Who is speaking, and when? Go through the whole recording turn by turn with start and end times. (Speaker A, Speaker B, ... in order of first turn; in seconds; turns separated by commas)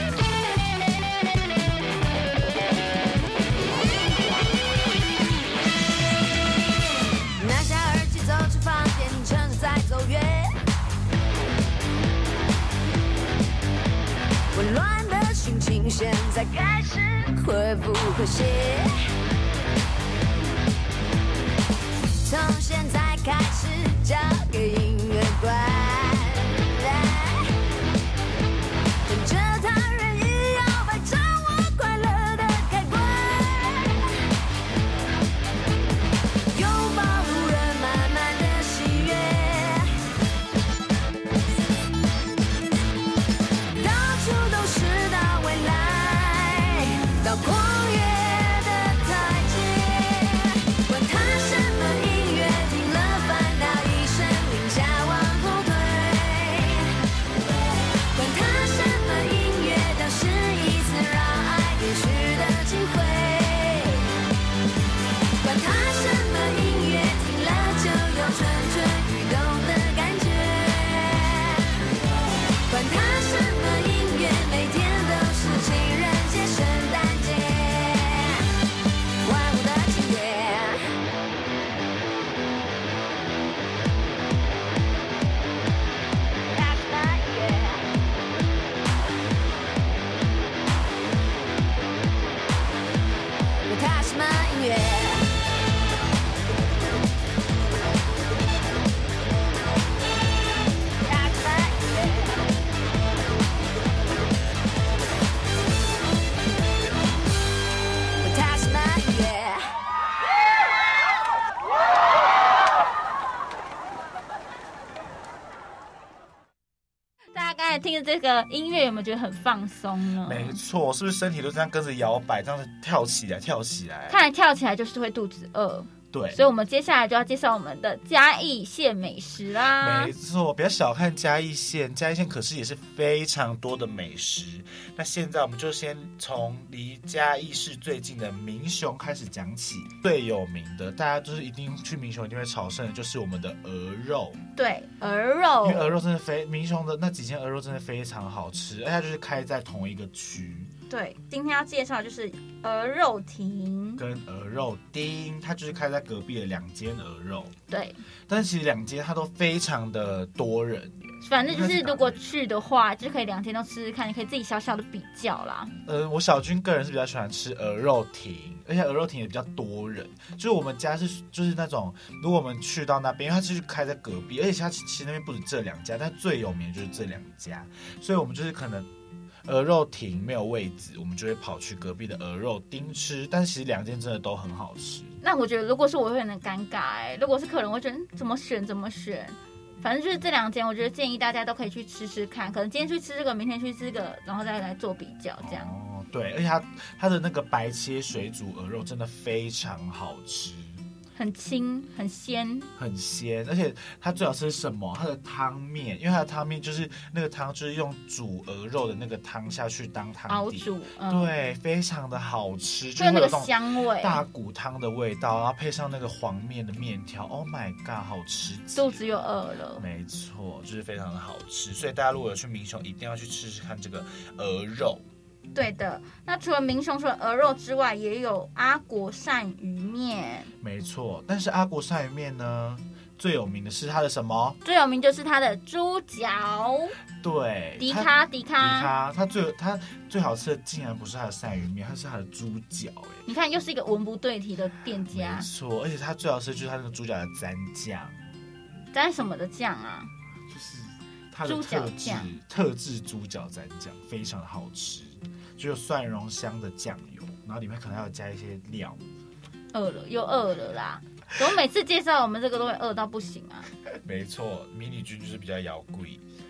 Speaker A: 7.4-10.6, Speaker A: 14.5-18.9, Speaker A: 22.2-27.6, Speaker A: 29.1-34.2, Speaker A: 36.5-40.0, Speaker A: 43.8-57.0, Speaker A: 58.1-64.1, Speaker A: 65.4-71.9, Speaker A: 72.7-78.5, Speaker A: 79.2-80.9, Speaker A: 86.5-87.9, Speaker A: 93.7-95.3, Speaker A: 101.0-102.5, Speaker A: 108.2-109.7, Speaker B: 117.3-120.6, Speaker C: 120.2-124.2, Speaker B: 124.1-130.1, Speaker C: 126.1-126.4, Speaker C: 129.7-144.4, Speaker B: 144.6-146.0, Speaker C: 145.6-150.7, Speaker B: 150.9-154.0, Speaker C: 154.0-157.6, Speaker B: 157.7-158.0, Speaker C: 158.3-162.2, Speaker B: 161.2-165.8, Speaker C: 165.8-178.9, Speaker C: 179.4-185.2, Speaker B: 185.2-195.7, Speaker C: 195.4-200.8, Speaker B: 201.2-202.7, Speaker C: 202.8-219.1, Speaker B: 210.3-211.3, Speaker B: 213.0-214.2, Speaker B: 218.8-219.8, Speaker C: 219.8-225.1, Speaker B: 225.5-230.5, Speaker C: 230.6-234.6, Speaker B: 234.6-237.0, Speaker C: 237.2-243.3, Speaker B: 237.8-238.9, Speaker B: 243.3-245.5, Speaker C: 245.1-248.2, Speaker B: 248.9-250.1, Speaker C: 250.5-259.1, Speaker B: 251.4-252.3, Speaker B: 259.7-263.7, Speaker C: 263.9-266.2